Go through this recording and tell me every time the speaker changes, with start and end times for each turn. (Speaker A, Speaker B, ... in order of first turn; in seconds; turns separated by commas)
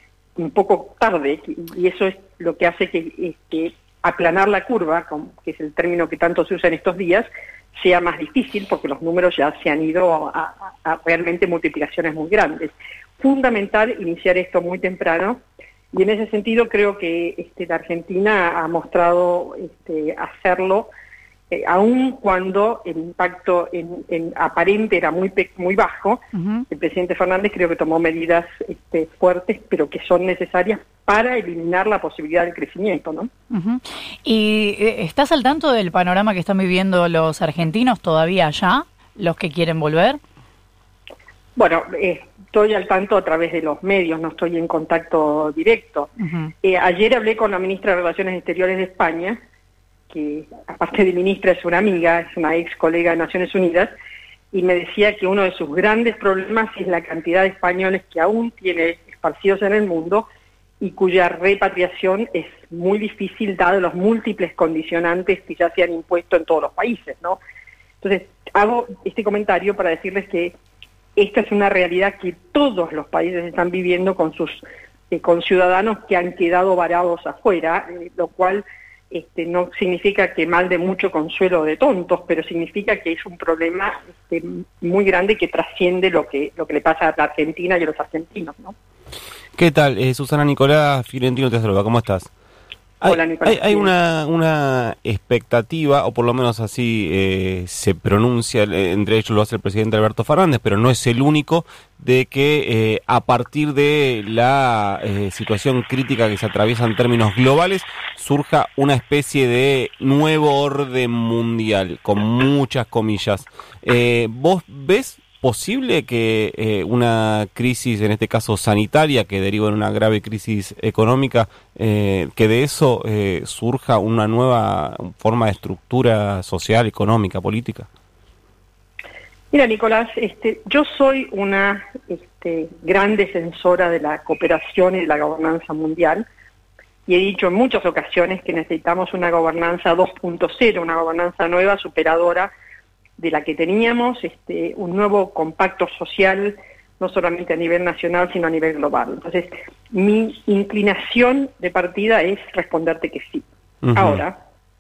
Speaker A: 0.4-15.4, Speaker A: 15.9-20.9, Speaker A: 21.5-33.3, Speaker B: 26.4-26.6, Speaker B: 33.5-40.2, Speaker A: 41.6-46.1, Speaker B: 46.2-46.5, Speaker A: 46.6-49.4, Speaker A: 50.1-53.9, Speaker A: 54.5-60.3, Speaker A: 60.8-67.4, Speaker A: 68.0-70.6, Speaker A: 71.2-88.7, Speaker C: 89.6-92.3, Speaker C: 93.0-127.9, Speaker A: 93.0-93.9, Speaker A: 129.5-136.2, Speaker A: 137.1-142.5, Speaker A: 143.2-154.4, Speaker C: 153.8-154.2